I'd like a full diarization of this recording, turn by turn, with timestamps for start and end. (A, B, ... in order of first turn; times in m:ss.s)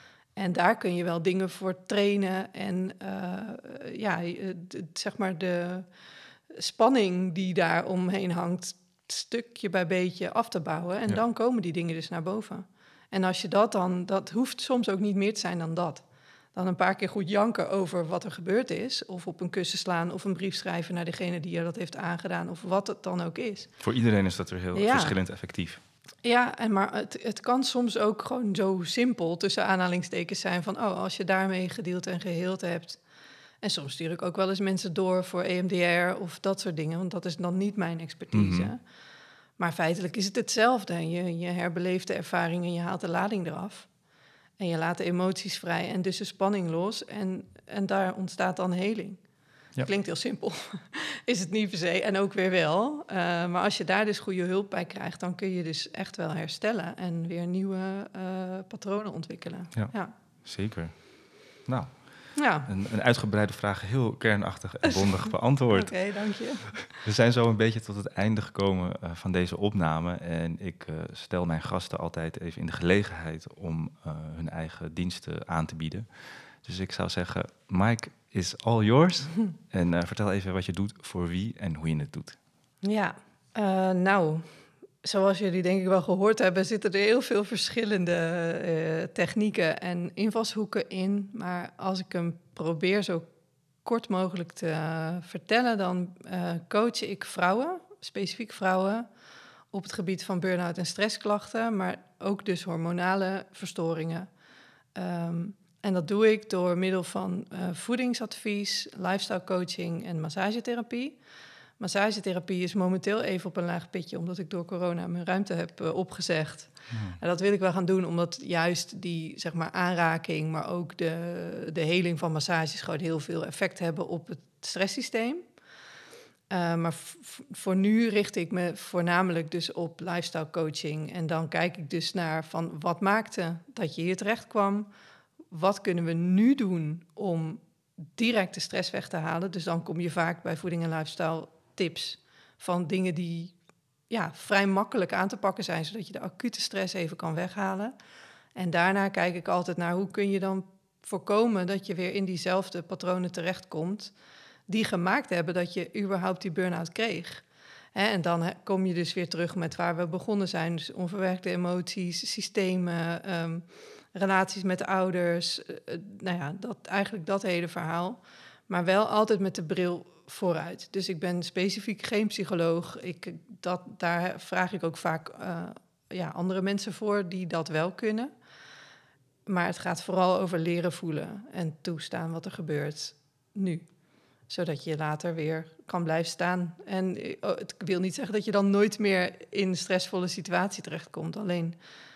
0:00.4-0:05.9 A
0:06.5-0:23.7 A
0:23.8-0:25.8 B
0:24.7-0:25.2 A
0:26.2-0:33.0 A
0:33.6-0:38.8 A
0:38.3-0:38.7 B
0:39.6-0:43.9 A
0:44.6-0:49.2 A
0:49.8-1:00.1 A
1:00.4-1:01.0 B
1:01.7-1:06.0 B
1:02.3-1:02.7 A
1:04.9-1:06.9 A
1:06.8-1:16.0 B
1:16.6-1:22.4 B
1:22.8-1:24.4 A
1:25.0-1:33.3 A
1:33.8-1:39.1 A
1:39.7-1:44.3 A
1:44.9-1:51.2 A
1:51.8-2:05.4 A
1:56.9-1:57.2 B
2:06.5-2:14.9 A
2:15.5-2:23.5 A
2:24.1-2:27.9 A
2:28.5-2:34.1 A
2:34.7-2:58.3 A
2:59.4-3:03.9 A
3:04.5-3:11.8 A